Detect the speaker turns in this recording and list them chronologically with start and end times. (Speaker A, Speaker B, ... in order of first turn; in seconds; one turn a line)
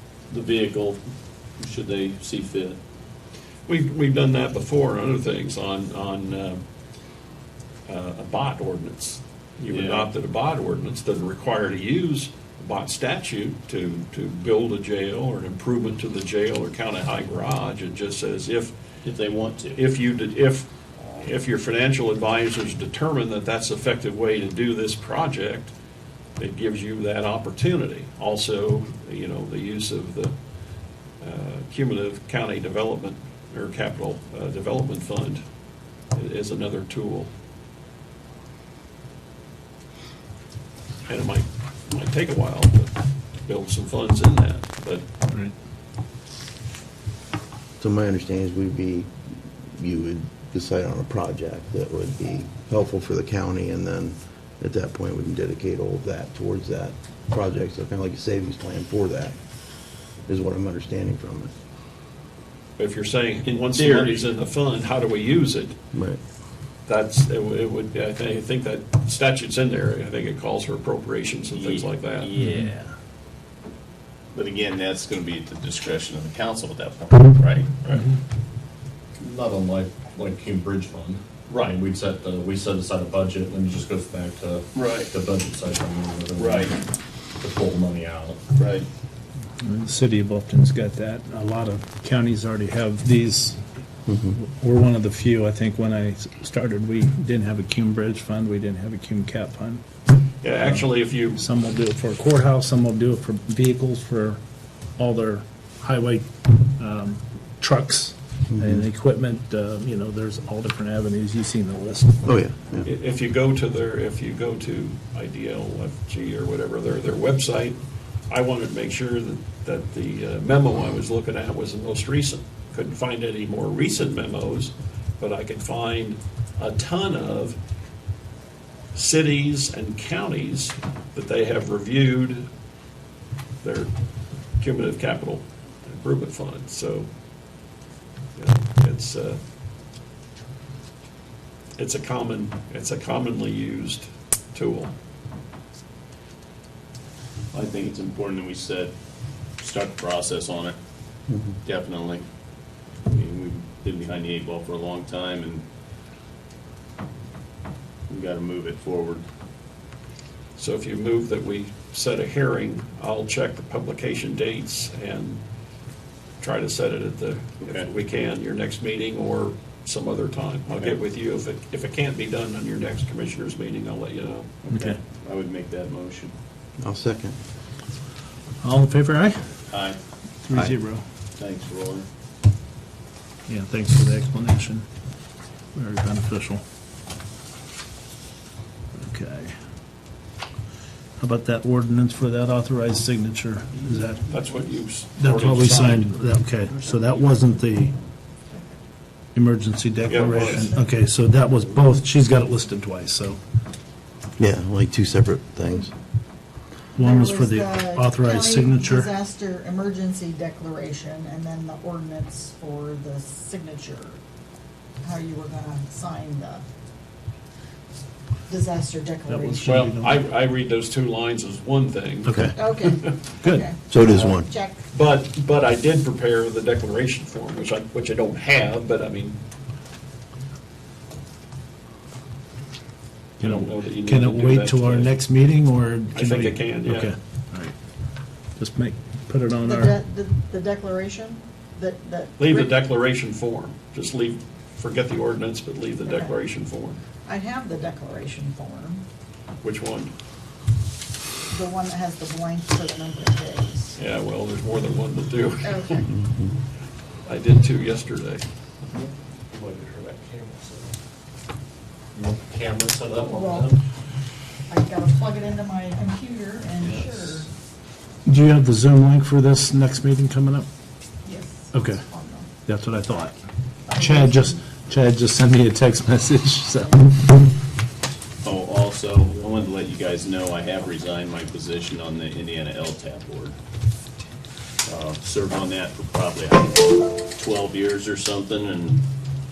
Speaker A: 0.3-1.0
Speaker A: 1.6-2.8
Speaker B: 3.7-6.6
Speaker B: 7.9-18.7
Speaker A: 9.7-10.1
Speaker A: 19.0-19.8
Speaker B: 19.7-25.7
Speaker B: 26.4-30.3
Speaker B: 31.2-35.4
Speaker B: 36.1-37.3
Speaker B: 41.1-42.9
Speaker B: 43.5-45.0
Speaker C: 47.8-49.1
Speaker C: 49.7-59.4
Speaker C: 60.2-61.5
Speaker B: 62.8-65.7
Speaker A: 63.4-64.3
Speaker C: 65.9-66.2
Speaker B: 66.9-72.3
Speaker A: 71.5-72.9
Speaker D: 72.4-72.7
Speaker A: 74.3-77.8
Speaker E: 79.2-86.8
Speaker A: 84.7-85.1
Speaker A: 86.3-86.8
Speaker E: 87.4-88.4
Speaker A: 88.5-88.9
Speaker D: 89.6-93.6
Speaker C: 94.1-94.4
Speaker D: 94.3-99.8
Speaker B: 100.4-101.4
Speaker D: 101.3-104.4
Speaker D: 105.0-112.3
Speaker C: 108.5-108.8
Speaker C: 112.2-112.9
Speaker B: 112.8-117.8
Speaker B: 118.3-127.6
Speaker B: 128.9-132.5
Speaker B: 133.6-133.9
Speaker B: 134.6-137.1
Speaker B: 138.4-139.4
Speaker B: 141.8-144.9
Speaker A: 147.5-148.9
Speaker A: 149.6-150.8
Speaker C: 151.3-151.6
Speaker A: 151.6-152.2
Speaker A: 153.0-155.6
Speaker A: 158.1-159.2
Speaker B: 160.6-165.4
Speaker B: 166.4-174.6
Speaker A: 167.6-167.9
Speaker A: 174.6-176.3
Speaker D: 174.7-175.0
Speaker C: 176.8-177.3
Speaker D: 178.6-179.4
Speaker A: 179.7-180.0
Speaker D: 180.4-181.0
Speaker A: 181.3-182.1
Speaker D: 183.5-184.9
Speaker D: 185.7-186.6
Speaker D: 188.9-189.6
Speaker D: 191.2-194.2
Speaker B: 194.2-196.1
Speaker D: 195.2-197.9
Speaker D: 199.3-203.4
Speaker B: 200.1-200.8
Speaker F: 200.4-200.8
Speaker C: 204.4-205.9
Speaker D: 206.9-209.1
Speaker F: 207.0-214.2
Speaker F: 215.0-216.6
Speaker F: 218.5-219.7
Speaker D: 219.3-220.2
Speaker B: 219.7-223.3
Speaker D: 222.2-222.6
Speaker F: 222.5-224.8
Speaker D: 223.4-223.7
Speaker C: 223.9-224.5
Speaker B: 224.9-229.4
Speaker B: 233.4-235.1
Speaker D: 233.4-237.7
Speaker B: 236.1-237.1
Speaker D: 238.6-239.9
Speaker F: 239.6-242.7
Speaker B: 242.4-247.0
Speaker F: 246.0-246.4
Speaker F: 247.2-249.0
Speaker B: 249.6-250.1
Speaker F: 251.5-254.0
Speaker B: 254.0-256.0
Speaker F: 255.6-256.1
Speaker C: 256.1-256.5
Speaker B: 257.2-258.4
Speaker E: 258.9-260.9
Speaker E: 262.1-263.7
Speaker F: 263.2-263.7
Speaker F: 264.7-267.5
Speaker D: 268.2-270.7
Speaker F: 271.2-272.5
Speaker D: 271.7-272.0
Speaker D: 272.6-273.3
Speaker F: 273.9-274.6
Speaker D: 273.9-277.1
Speaker A: 278.4-283.6
Speaker A: 284.8-289.1